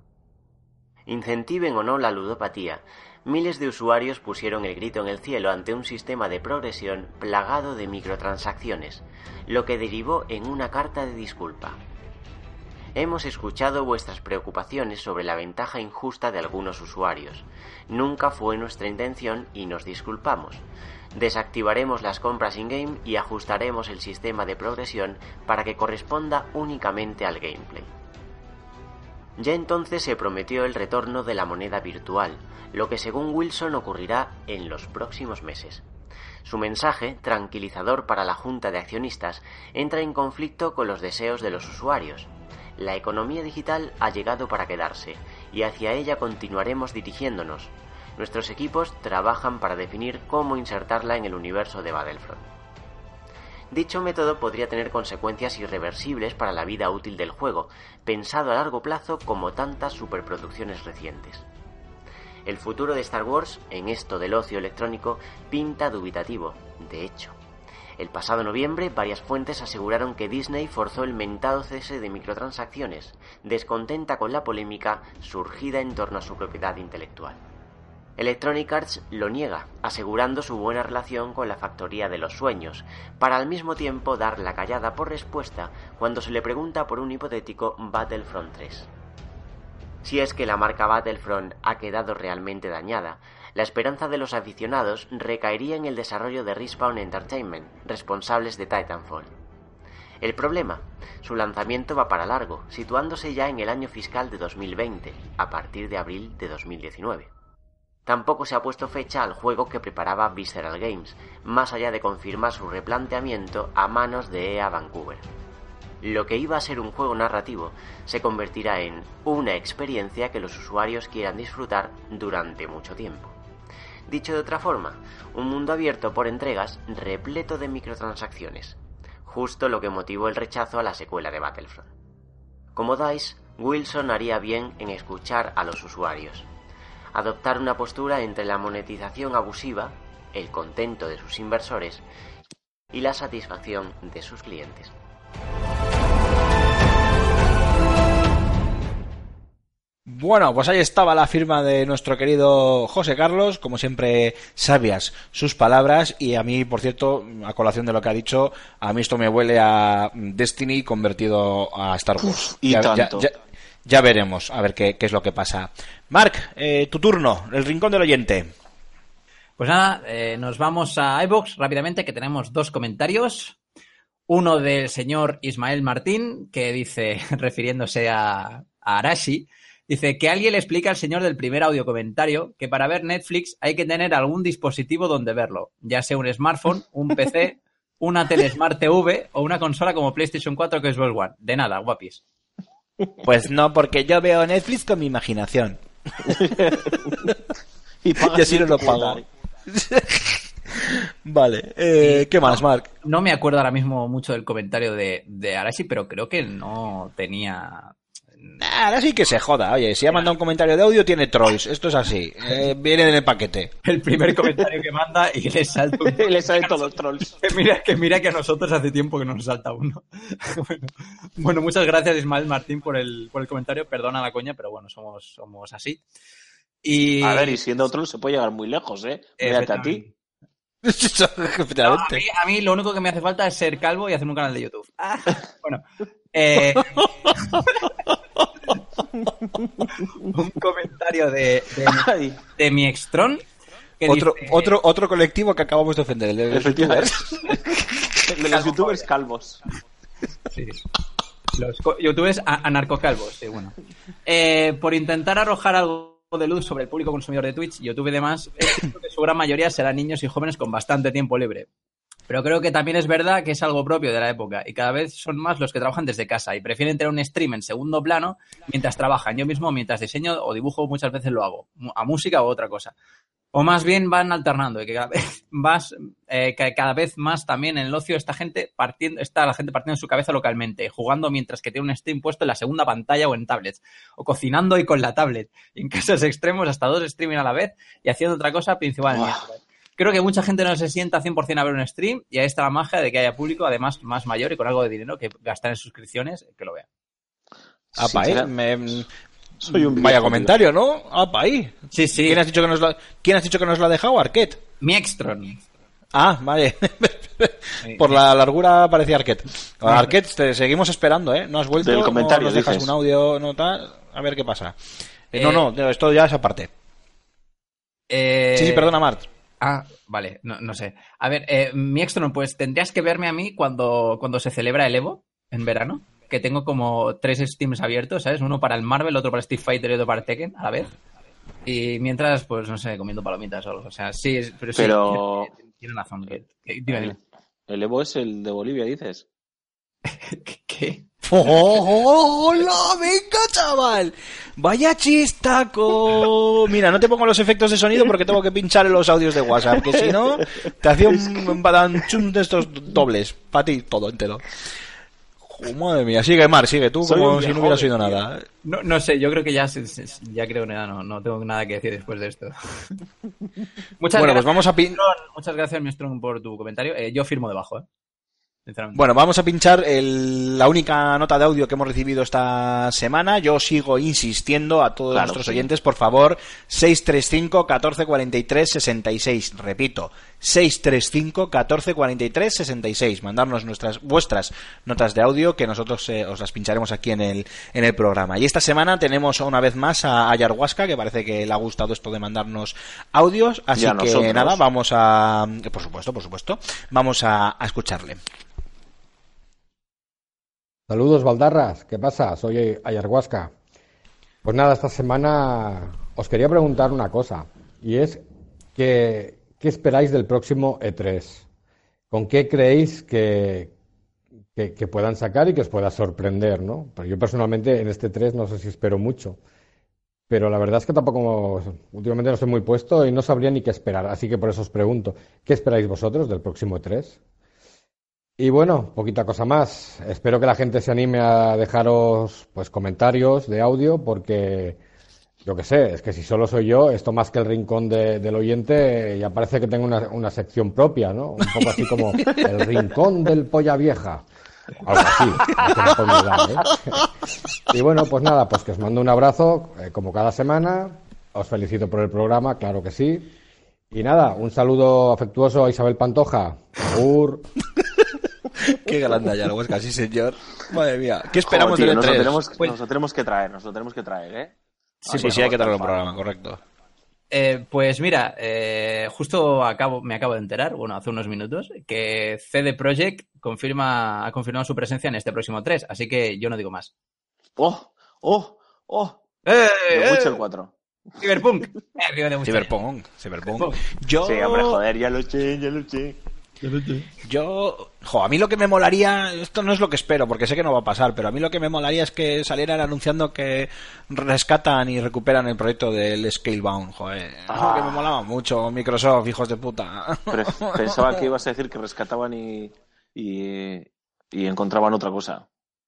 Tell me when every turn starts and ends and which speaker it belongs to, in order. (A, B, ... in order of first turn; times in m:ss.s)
0:01.1-0:11.8 A
0:13.0-0:27.9 A
0:29.4-0:35.8 A
0:36.4-0:52.5 A
0:53.7-1:01.5 A
1:02.5-1:07.4 A
1:08.0-1:17.4 A
1:18.2-1:28.9 A
1:30.0-1:39.3 A
1:40.2-1:47.3 A
1:48.1-1:55.3 A
1:56.0-2:03.4 A
2:04.1-2:11.9 A
2:12.8-2:16.5 A
2:17.2-2:22.0 A
2:22.9-2:25.0 A
2:30.1-2:43.3 B
2:42.2-2:43.3 C
2:43.8-2:48.5 B
2:49.6-2:53.6 D
2:54.3-3:12.2 D
3:13.2-3:16.4 B
3:16.2-3:17.4 C
3:18.0-3:19.2 C
3:18.2-3:22.9 B
3:22.0-3:28.6 D
3:28.6-3:33.7 B
3:33.8-3:36.8 D
3:36.1-3:37.3 C
3:37.4-3:46.0 D
3:46.8-3:47.6 D
3:47.2-3:50.0 C
3:49.4-3:50.1 D
3:50.8-3:52.2 B
3:51.8-3:57.9 D
3:59.2-3:59.9 C
4:00.2-4:03.4 D
4:01.8-4:02.4 C
4:04.0-4:04.8 D
4:04.1-4:07.4 B
4:06.5-4:09.6 C
4:08.5-4:09.1 D
4:10.5-4:10.8 D
4:11.5-4:21.7 D
4:22.3-4:32.9 D
4:33.5-4:56.9 D
4:49.1-4:49.4 C
4:57.9-4:58.5 C
4:58.0-4:59.1 B
4:59.6-5:00.5 C
4:59.9-5:04.6 B
5:01.9-5:02.4 D
5:04.8-5:05.6 D
5:06.1-5:14.8 B
5:07.8-5:08.1 D
5:11.8-5:12.9 C
5:15.3-5:16.7 B
5:15.4-5:15.7 D
5:18.1-5:18.9 D
5:18.6-5:19.3 B
5:19.6-5:30.9 D
5:31.7-5:37.2 D
5:34.8-5:35.5 C
5:36.9-5:37.2 C
5:37.7-5:39.3 C
5:40.1-5:41.0 D
5:41.2-5:54.4 B
5:49.8-5:50.4 C
5:51.0-5:51.5 C
5:55.4-5:58.5 B
5:57.0-5:58.2 C
5:58.6-6:03.0 D
6:04.0-6:07.9 D
6:04.1-6:05.0 B
6:08.7-6:09.0 D
6:08.9-6:38.2 B
6:15.1-6:15.7 C
6:33.8-6:34.6 C
6:40.9-6:43.5 E
6:44.4-6:48.2 E
6:48.8-6:51.4 E
6:52.1-6:53.7 E
6:54.6-6:59.4 E
7:00.3-7:07.2 E
7:08.4-7:14.8 E
7:15.4-7:24.2 E
7:24.8-7:27.0 E
7:27.7-7:33.3 E
7:33.9-7:37.5 E
7:38.7-7:42.4 B
7:41.4-7:46.1 C
7:45.1-7:45.4 D
7:45.1-7:46.6 B
7:47.3-7:56.9 D
7:57.6-7:59.2 C
7:59.5-8:00.4 D
7:59.9-8:00.7 C
8:01.2-8:02.7 D
8:02.4-8:04.8 B
8:03.5-8:03.8 D
8:04.2-8:06.2 C
8:06.6-8:07.1 D
8:07.2-8:21.2 B
8:17.5-8:18.1 C
8:20.3-8:25.5 C